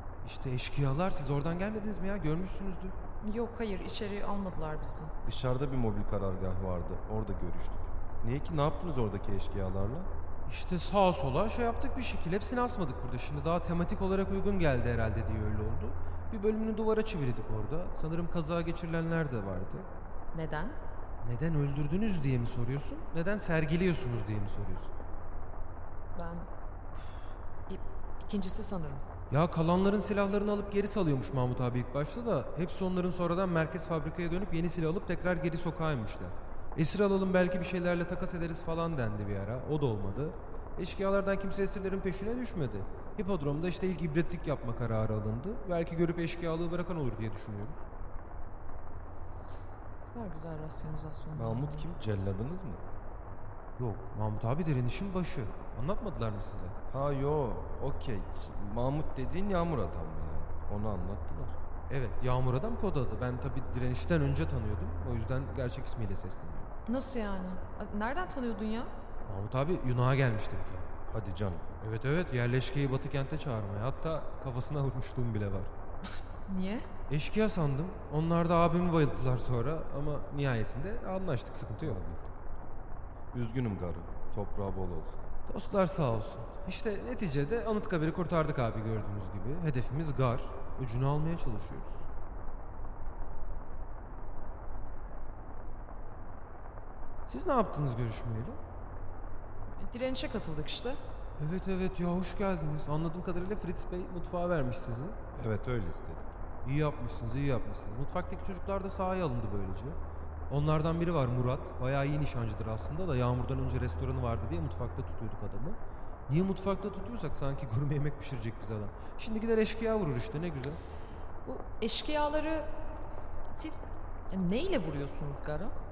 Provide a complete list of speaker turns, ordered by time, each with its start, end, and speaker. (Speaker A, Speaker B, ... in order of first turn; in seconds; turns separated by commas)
Speaker A: 0.2-3.0, Speaker B: 3.2-5.1, Speaker C: 5.2-10.1, Speaker A: 10.5-19.9, Speaker B: 20.3-20.8, Speaker A: 21.2-24.9, Speaker B: 26.1-29.0, Speaker A: 29.3-47.8, Speaker B: 50.1-51.9, Speaker C: 51.3-52.8, Speaker A: 53.8-56.7, Speaker C: 56.9-61.5, Speaker A: 61.9-66.7, Speaker B: 66.9-68.9, Speaker A: 69.2-70.9, Speaker C: 71.1-71.6, Speaker A: 71.8-75.7, Speaker B: 76.5-76.9, Speaker A: 77.1-82.0, Speaker C: 81.8-82.2, Speaker C: 83.3-85.2, Speaker A: 85.5-92.0, Speaker A: 97.3-98.6, Speaker B: 99.8-101.0, Speaker A: 101.4-105.2, Speaker C: 105.3-106.3, Speaker A: 106.6-110.0, Speaker A: 110.5-120.8, Speaker B: 121.4-122.7, Speaker B: 123.5-125.7